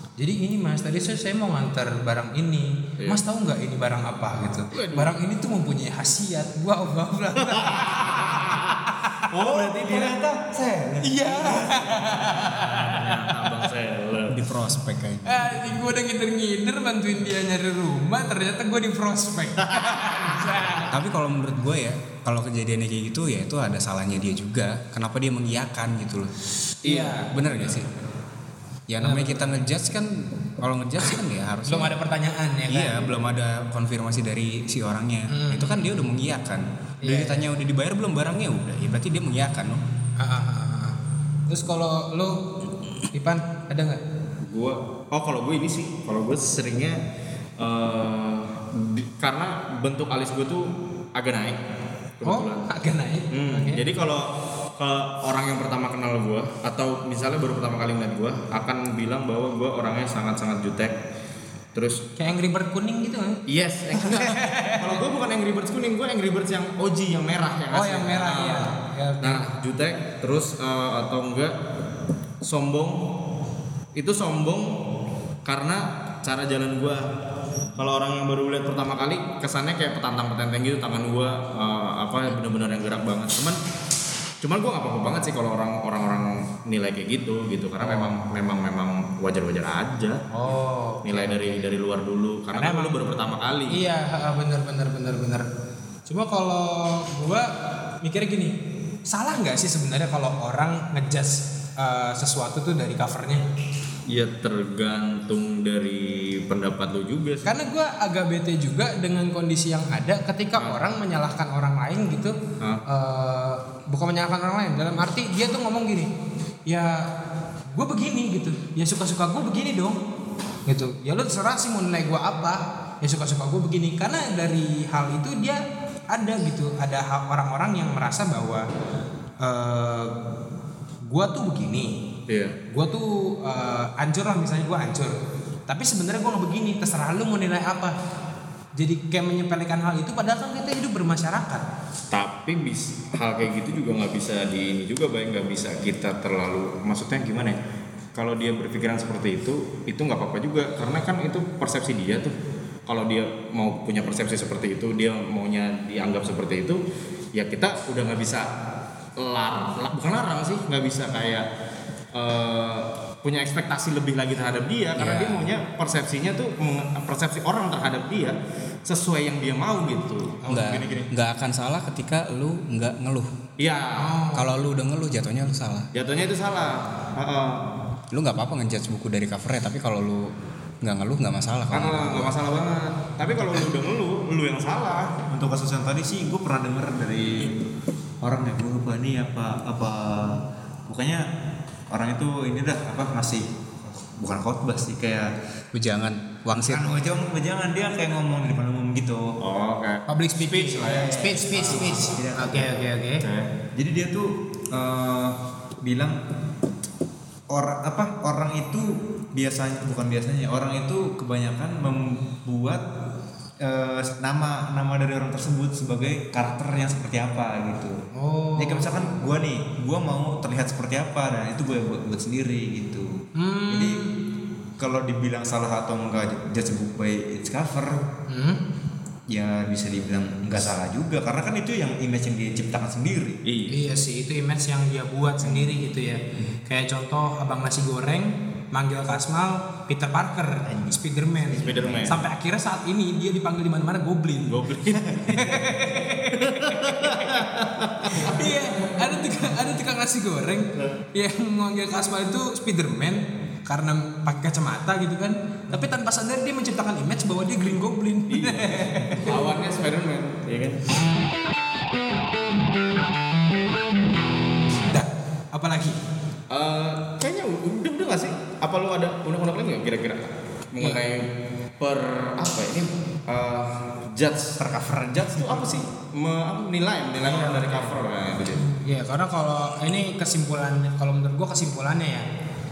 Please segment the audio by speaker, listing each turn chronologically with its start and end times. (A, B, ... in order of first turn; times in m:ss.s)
0:00.2-0:08.6 A
0:04.7-0:05.1 B
0:07.5-0:08.8 B
0:09.3-0:10.1 B
0:09.4-0:11.9 C
0:11.0-0:13.3 A
0:12.4-0:14.4 B
0:14.3-0:15.7 D
0:15.2-0:20.9 A
0:20.9-0:26.3 D
0:26.8-0:27.7 A
0:26.8-0:27.1 B
0:27.2-0:27.9 D
0:28.9-0:31.9 D
0:29.0-0:29.6 A
0:31.7-0:33.1 A
0:32.7-0:39.8 D
0:35.3-0:36.0 A
0:37.0-0:37.4 A
0:40.2-0:40.9 A
0:41.5-0:42.4 A
0:43.1-0:44.0 A
0:44.4-0:47.0 B
0:47.6-0:51.6 B
0:52.2-0:52.7 B
0:52.2-0:53.8 A
0:53.3-0:54.3 B
0:54.8-1:00.9 B
1:01.7-1:02.0 B
1:02.2-1:03.4 A
1:03.5-1:08.7 B
1:04.0-1:05.0 A
1:07.7-1:09.5 A
1:09.2-1:11.5 B
1:12.4-1:13.0 B
1:14.0-1:14.7 B
1:15.4-1:17.0 B
1:17.8-1:23.6 B
1:24.4-1:30.2 B
1:27.8-1:28.2 A
1:30.3-1:31.6 A
1:31.0-1:33.8 B
1:32.5-1:32.9 A
1:33.7-1:35.4 A
1:36.1-1:37.5 A
1:38.0-1:38.5 A
1:39.1-1:43.4 A
1:44.1-1:47.5 B
1:47.4-1:52.3 A
1:52.9-1:56.1 A
1:56.7-1:57.0 A
1:57.7-2:00.0 A
2:00.7-2:08.6 A
2:09.4-2:10.1 A
2:11.1-2:11.9 A
2:12.3-2:12.5 B
2:12.7-2:15.1 A
2:15.7-2:17.9 A
2:18.8-2:21.6 A
2:22.1-2:27.6 B
2:28.1-2:32.3 B
2:32.9-2:36.8 B
2:37.3-2:38.5 B
2:39.2-2:41.5 B
2:42.1-2:51.1 B
2:45.0-2:45.5 D
2:50.4-2:50.8 A
2:50.5-2:53.3 D
2:53.6-2:54.1 B
2:54.0-2:54.5 A
2:54.3-2:55.9 D
2:55.9-2:57.6 B
2:58.1-3:02.4 D
3:01.7-3:05.1 B
3:05.3-3:07.5 C
3:08.2-3:11.2 C
3:11.9-3:15.3 C
3:15.7-3:17.0 D
3:16.5-3:19.3 C
3:19.4-3:22.1 B
3:20.1-3:23.2 A
3:20.8-3:22.8 C
3:23.2-3:23.5 B
3:23.8-3:26.2 C
3:27.5-3:32.8 C
3:33.6-3:38.0 C
3:38.1-3:38.9 A
3:38.6-3:44.0 C
3:43.4-3:44.1 A
3:44.8-3:48.0 C
3:48.3-3:48.6 A
3:49.3-3:53.4 C
3:53.4-3:53.7 B
3:53.7-4:04.5 A
4:00.7-4:01.0 C
4:01.5-4:02.2 C
4:01.6-4:02.2 B
4:04.5-4:05.6 B
4:05.0-4:05.2 C
4:05.3-4:07.4 A
4:06.3-4:08.3 B
4:08.1-4:19.5 A
4:18.3-4:20.8 B
4:24.9-4:26.0 A
4:26.5-4:31.2 B
4:31.8-4:34.6 B
4:34.6-4:35.6 C
4:35.1-4:38.7 B
4:37.2-4:37.9 A
4:38.6-4:42.2 A